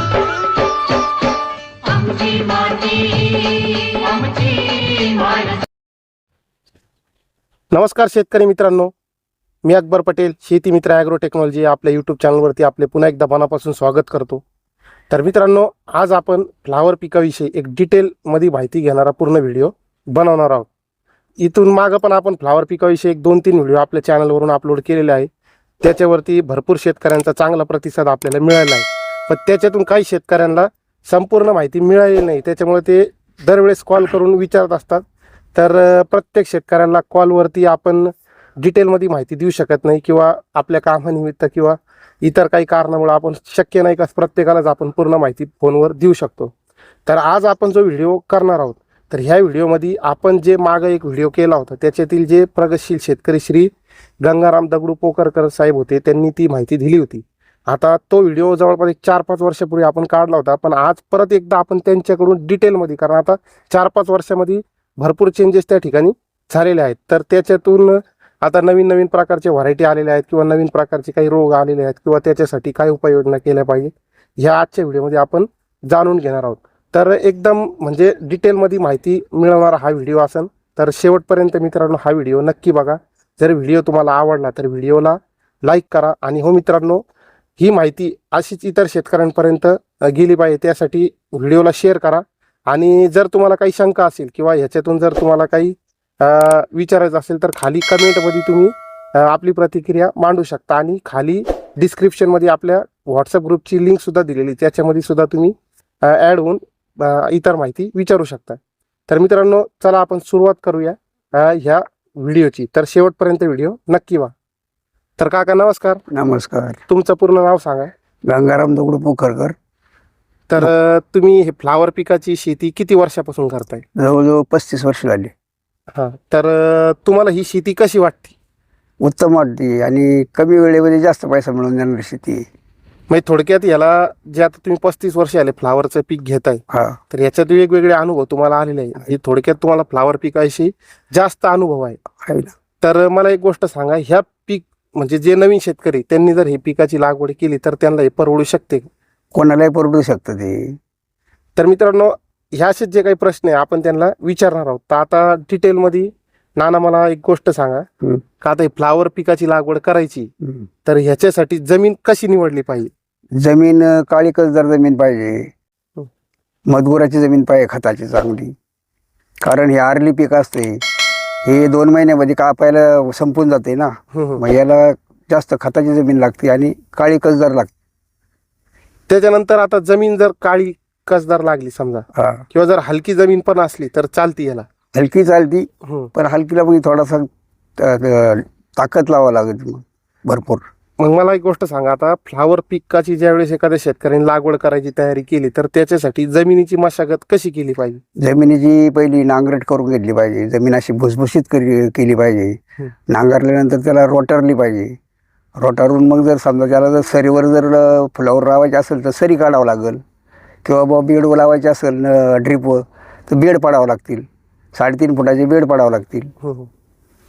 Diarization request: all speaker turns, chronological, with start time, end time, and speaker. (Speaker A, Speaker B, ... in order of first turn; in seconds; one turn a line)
Speaker A: 1.9-5.6
Speaker B: 7.7-8.9
Speaker B: 9.6-14.4
Speaker B: 15.1-20.7
Speaker B: 21.4-25.3
Speaker B: 25.8-46.5
Speaker B: 47.0-53.7
Speaker B: 54.2-87.0
Speaker B: 87.6-114.3
Speaker B: 115.2-116.0
Speaker C: 116.1-116.8
Speaker B: 116.9-117.9
Speaker C: 118.2-119.5
Speaker B: 120.5-123.8
Speaker C: 124.0-125.3
Speaker B: 125.9-128.3
Speaker C: 129.0-132.4
Speaker B: 133.1-142.0
Speaker C: 136.7-137.0
Speaker C: 142.2-142.5
Speaker B: 142.8-148.9
Speaker C: 149.3-150.8
Speaker B: 151.6-157.8
Speaker B: 158.4-160.3
Speaker C: 160.4-160.7
Speaker B: 160.8-162.9
Speaker C: 163.3-165.5
Speaker C: 166.7-168.5
Speaker C: 169.4-170.8
Speaker C: 171.4-177.7
Speaker B: 174.1-174.4
Speaker B: 179.1-184.7
Speaker C: 182.2-182.4
Speaker C: 184.9-190.6
Speaker B: 185.8-186.1
Speaker B: 191.0-198.0
Speaker C: 198.2-202.6
Speaker C: 203.1-204.9
Speaker C: 205.6-210.0
Speaker C: 210.6-216.3
Speaker B: 216.4-216.7